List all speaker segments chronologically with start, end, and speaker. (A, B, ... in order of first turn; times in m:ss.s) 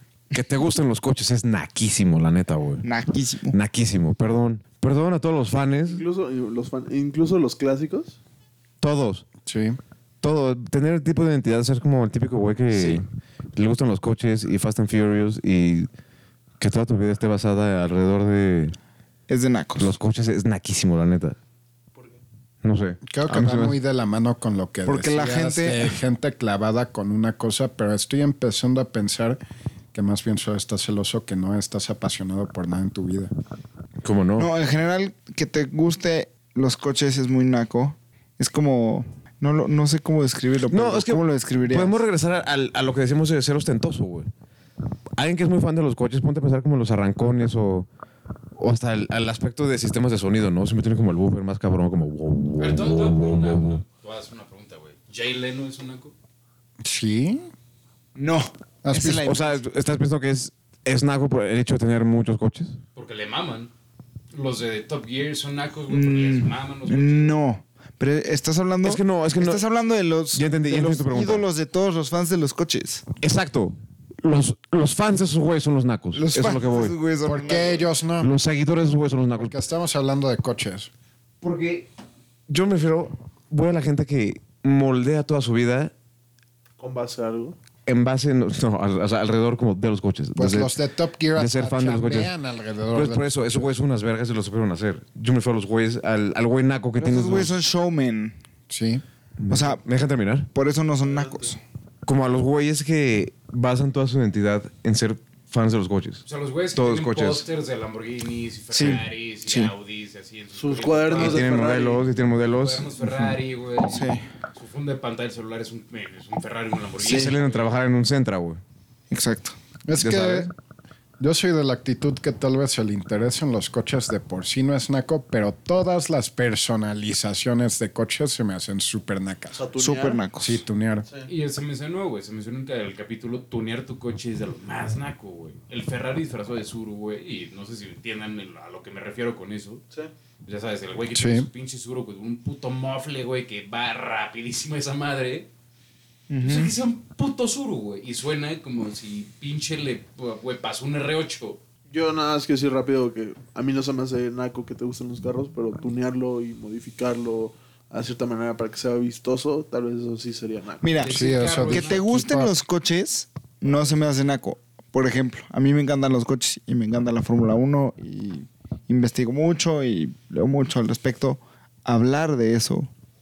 0:00.3-0:02.8 A
0:02.8-0:03.6 B
0:03.5-0:06.0 A
0:05.8-0:08.2 C
0:08.8-0:09.2 A
0:09.4-0:09.8 D
0:10.2-0:15.9 A
0:12.7-0:13.0 B
0:16.6-0:18.8 A
0:19.3-0:19.9 B
0:19.8-0:21.4 A
0:21.9-0:22.2 C
0:22.6-0:23.8 A
0:23.0-0:29.4 D
0:24.8-0:26.0 B
0:29.9-0:33.3 D
0:34.0-0:34.5 A
0:34.4-0:42.0 B
0:40.7-0:44.3 A
0:45.2-0:47.9 A
0:48.6-0:53.8 A
0:52.6-0:56.1 E
0:56.8-0:57.4 D
0:58.1-0:59.6 B
0:58.8-0:59.3 D
0:59.2-1:02.8 A
1:02.9-1:03.7 E
1:04.3-1:07.4 E
1:05.9-1:13.0 B
1:08.8-1:09.6 A
1:10.3-1:11.4 A
1:13.2-1:17.0 A
1:16.1-1:17.9 B
1:17.2-1:18.3 D
1:18.2-1:19.6 A
1:19.4-1:20.9 D
1:21.4-1:21.9 A
1:22.5-1:25.9 A
1:26.8-1:27.6 C
1:27.8-1:30.7 A
1:30.4-1:33.7 D
1:31.3-1:32.3 A
1:32.9-1:37.5 A
1:37.0-1:38.4 B
1:38.7-1:39.0 D
1:39.4-1:40.5 A
1:39.5-1:39.8 B
1:40.5-1:41.6 B
1:41.0-1:41.5 C
1:42.0-1:47.4 A
1:46.2-1:51.5 E
1:48.7-1:49.7 B
1:50.5-1:52.1 C
1:51.1-1:53.0 A
1:52.5-1:57.8 E
1:53.8-1:54.3 B
1:57.0-1:58.6 A
1:57.0-1:57.3 C
1:59.1-1:59.6 B
1:59.8-2:00.5 D
2:00.0-2:00.5 A
2:01.2-2:09.6 D
2:09.5-2:10.2 C
2:09.8-2:10.6 B
2:10.4-2:11.1 D
2:11.2-2:19.8 E
2:20.4-2:25.5 E
2:21.1-2:21.5 D
2:26.3-2:26.7 B
2:26.4-2:31.6 E
2:31.9-2:41.0 C
2:40.8-2:52.9 B
2:41.0-2:42.0 E
2:41.0-2:42.6 D